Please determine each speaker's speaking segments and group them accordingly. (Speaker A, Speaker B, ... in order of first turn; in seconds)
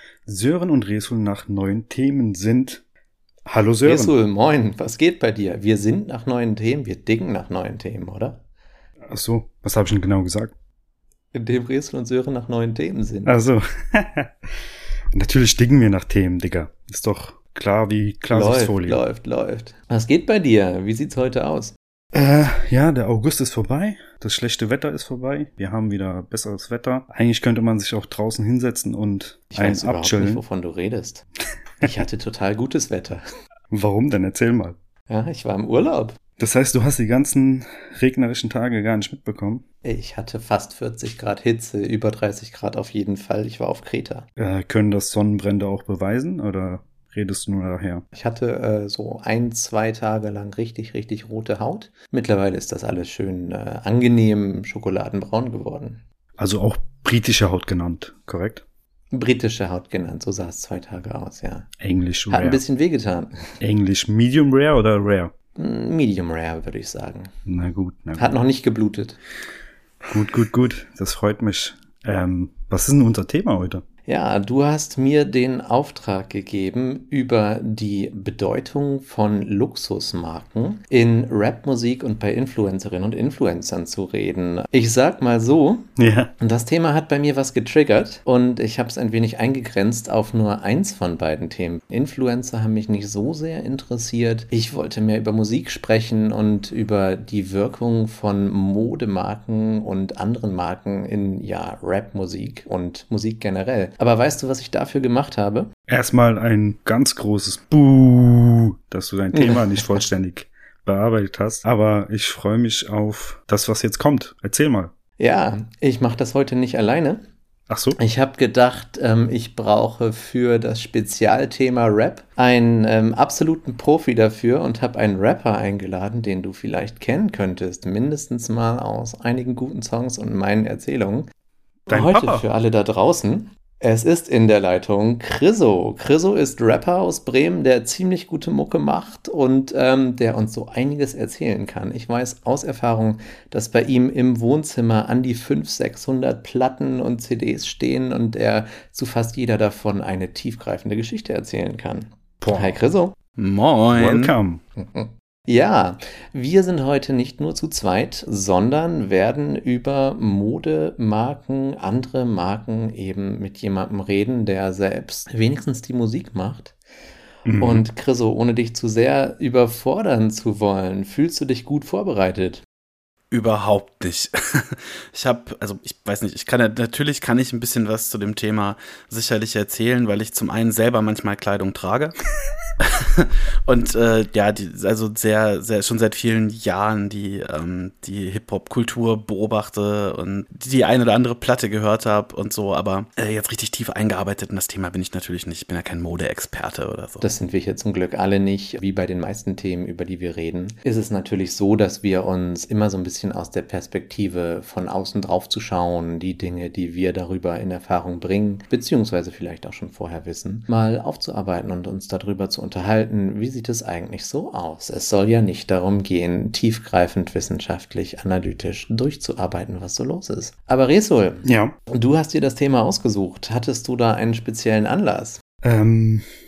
Speaker A: 0.2-2.8, 3.5-4.1, 9.1-10.5, 13.2-14.5, 15.1-19.0, 22.1-30.4, 33.7-34.8, 36.4-39.6, 44.4-48.0, 56.4-58.6, 61.8-62.6, 63.6-65.3, 67.5-68.3, 70.1-73.8, 86.0-86.3, 105.9-114.9, 117.7-118.0, 131.9-132.4, 152.4-152.8, 153.9-154.6, 167.4-167.8, 221.4-221.8, 225.6-226.2
Speaker B: 3.8-8.4, 11.3-13.4, 18.3-21.7, 29.5-31.2, 31.8-33.2, 35.1-36.2, 39.8-44.3, 48.1-56.0, 59.1-61.7, 62.3-63.4, 65.6-67.3, 68.2-69.2, 74.1-85.9, 86.4-105.7, 109.3-110.0, 115.2-117.2, 118.0-131.3, 131.9-153.1, 154.8-166.8, 167.6-172.6, 197.2-225.4
Speaker C: 153.4-154.3, 173.3-182.2, 182.8-197.2